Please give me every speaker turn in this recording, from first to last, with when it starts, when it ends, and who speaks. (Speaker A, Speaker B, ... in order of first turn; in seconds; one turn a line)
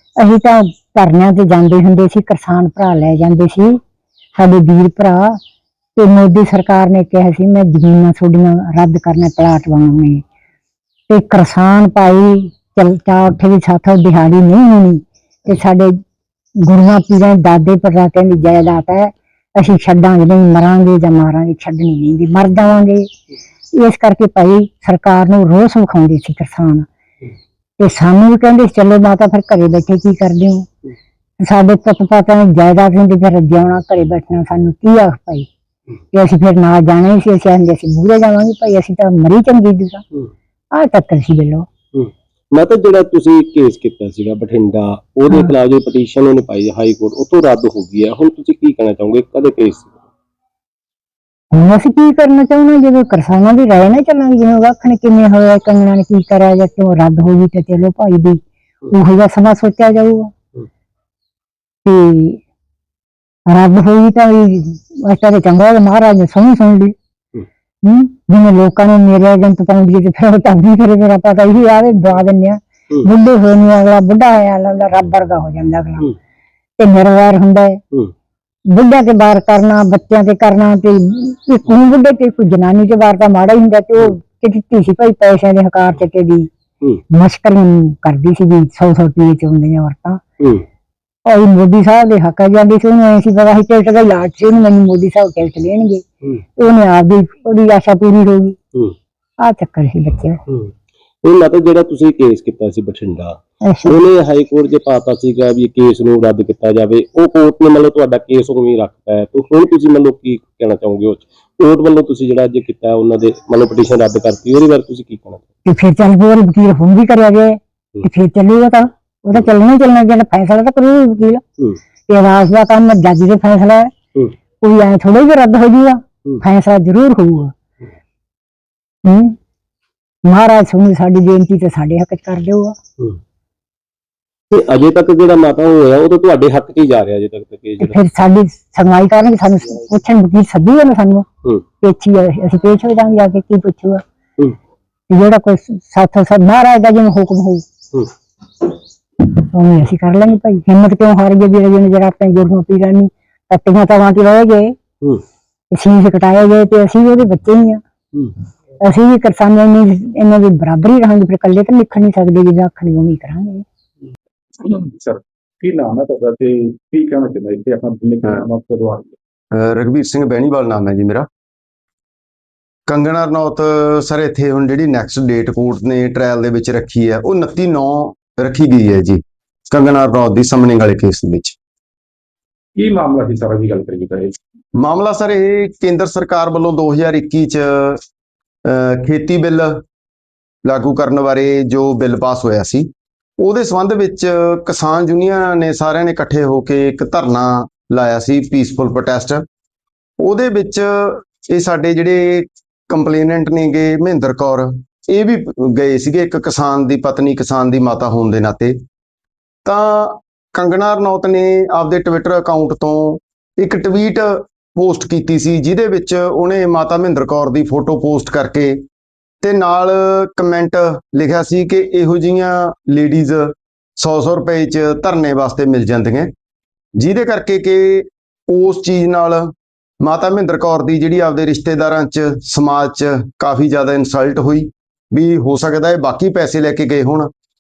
Speaker A: 0.2-3.8
Speaker A: 4.4-5.4
Speaker A: 6.0-10.2
Speaker A: 11.1-16.0
Speaker A: 16.6-23.1
Speaker A: 23.8-26.9
Speaker A: 27.8-30.7
Speaker A: 31.4-35.5
Speaker A: 36.1-40.0
Speaker A: 40.7-41.7
Speaker B: 41.9-50.0
Speaker A: 51.5-60.3
Speaker A: 61.9-62.4
Speaker A: 63.5-66.9
Speaker A: 67.8-76.1
Speaker A: 76.8-77.8
Speaker A: 78.7-86.5
Speaker A: 87.1-90.2
Speaker A: 91.3-96.0
Speaker A: 96.6-98.6
Speaker A: 99.4-100.4
Speaker B: 100.5-115.4
Speaker A: 103.6-104.0
Speaker A: 115.7-121.4
Speaker A: 122.1-123.9
Speaker A: 124.6-127.5
Speaker A: 129.1-129.3
Speaker A: 130.2-132.8
Speaker B: 134.5-138.0
Speaker A: 137.8-141.3
Speaker A: 141.8-144.0
Speaker A: 145.1-147.6
Speaker A: 149.2-154.8
Speaker A: 155.7-157.8
Speaker A: 158.8-163.6
Speaker C: 164.6-169.2
Speaker D: 169.5-171.3
Speaker D: 172.9-181.6
Speaker C: 182.8-184.3
Speaker D: 184.8-188.0
Speaker D: 188.7-189.8
Speaker D: 190.6-199.4
Speaker D: 200.2-208.8
Speaker D: 209.7-218.8
Speaker D: 219.4-226.3
Speaker D: 227.0-237.3